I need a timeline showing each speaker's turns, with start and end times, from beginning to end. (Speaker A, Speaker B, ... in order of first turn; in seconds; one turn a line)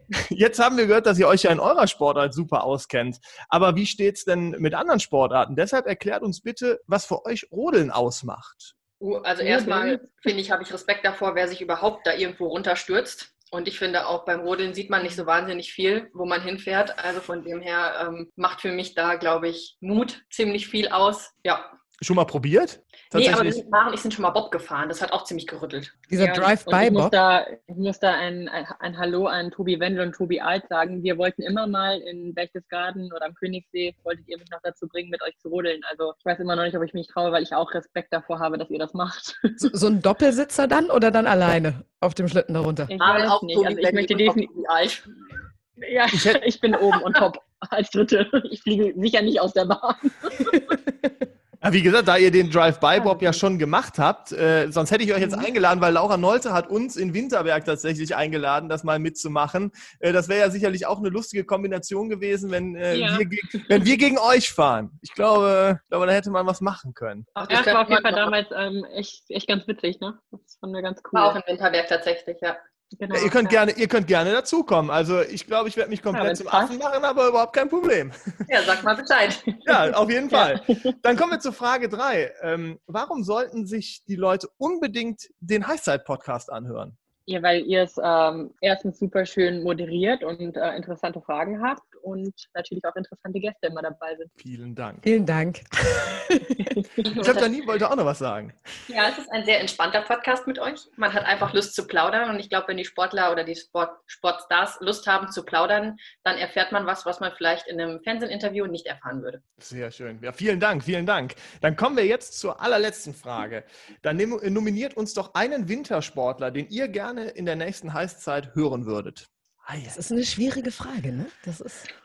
Speaker A: 0.1-8.7
Speaker B: 9.0-21.7
Speaker C: 9.4-10.1
Speaker A: 22.0-23.6
Speaker B: 23.1-26.0
Speaker D: 26.1-27.1
Speaker C: 26.2-39.7
Speaker D: 39.6-42.9
Speaker C: 42.9-44.5
Speaker B: 43.0-45.0
Speaker C: 45.8-50.7
Speaker A: 46.1-46.4
Speaker A: 51.6-67.3
Speaker C: 52.9-53.4
Speaker C: 62.9-63.2
Speaker B: 67.3-68.3
Speaker C: 67.5-71.4
Speaker B: 71.1-72.6
Speaker C: 73.0-73.6
Speaker A: 73.1-78.4
Speaker C: 76.1-76.8
Speaker B: 78.5-79.5
Speaker A: 79.6-87.0
Speaker C: 80.3-80.9
Speaker C: 87.3-94.3
Speaker A: 94.4-95.0
Speaker D: 95.0-96.8
Speaker C: 96.7-97.1
Speaker B: 97.1-97.5
Speaker A: 97.2-98.5
Speaker B: 98.9-109.4
Speaker A: 109.6-120.0
Speaker D: 119.9-121.9